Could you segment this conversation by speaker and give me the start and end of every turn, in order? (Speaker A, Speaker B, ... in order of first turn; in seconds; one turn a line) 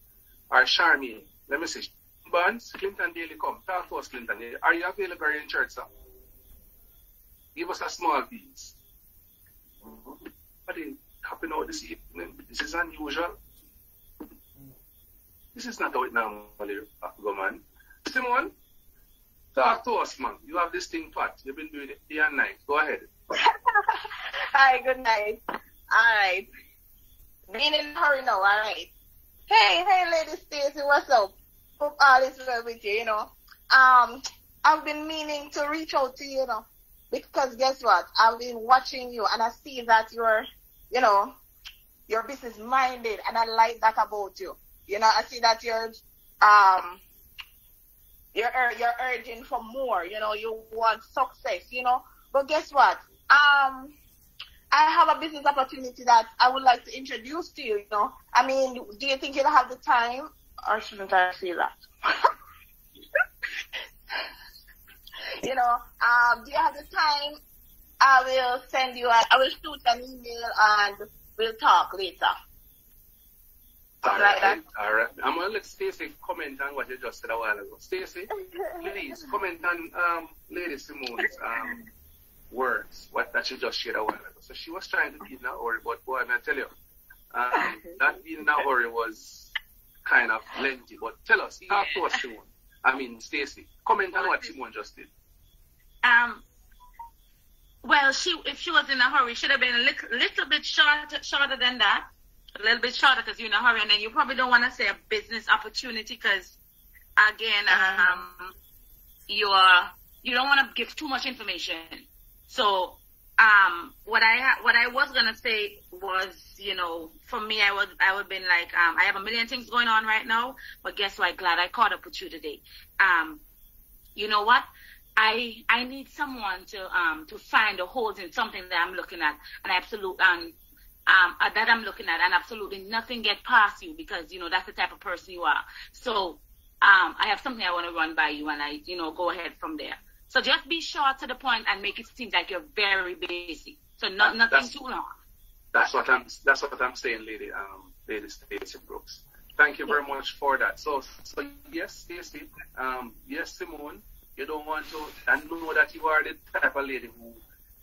Speaker A: 0.5-5.9
Speaker A: 7.5-8.8
Speaker A: 9.8-13.4
Speaker A: 15.5-18.5
Speaker A: 19.5-23.1
Speaker B: 23.3-26.5
Speaker B: 27.5-28.9
Speaker B: 29.5-41.3
Speaker B: 42.1-47.0
Speaker B: 48.3-53.9
Speaker B: 54.7-62.3
Speaker B: 65.4-67.4
Speaker B: 68.0-72.3
Speaker A: 74.0-81.8
Speaker B: 74.0-74.6
Speaker A: 82.5-86.7
Speaker A: 87.3-89.5
Speaker A: 90.0-95.1
Speaker C: 96.0-96.4
Speaker C: 97.8-106.6
Speaker C: 107.2-108.5
Speaker B: 107.8-108.2
Speaker C: 109.3-123.4
Speaker C: 124.1-130.6
Speaker C: 131.1-145.1
Speaker A: 144.2-144.7
Speaker A: 145.7-157.4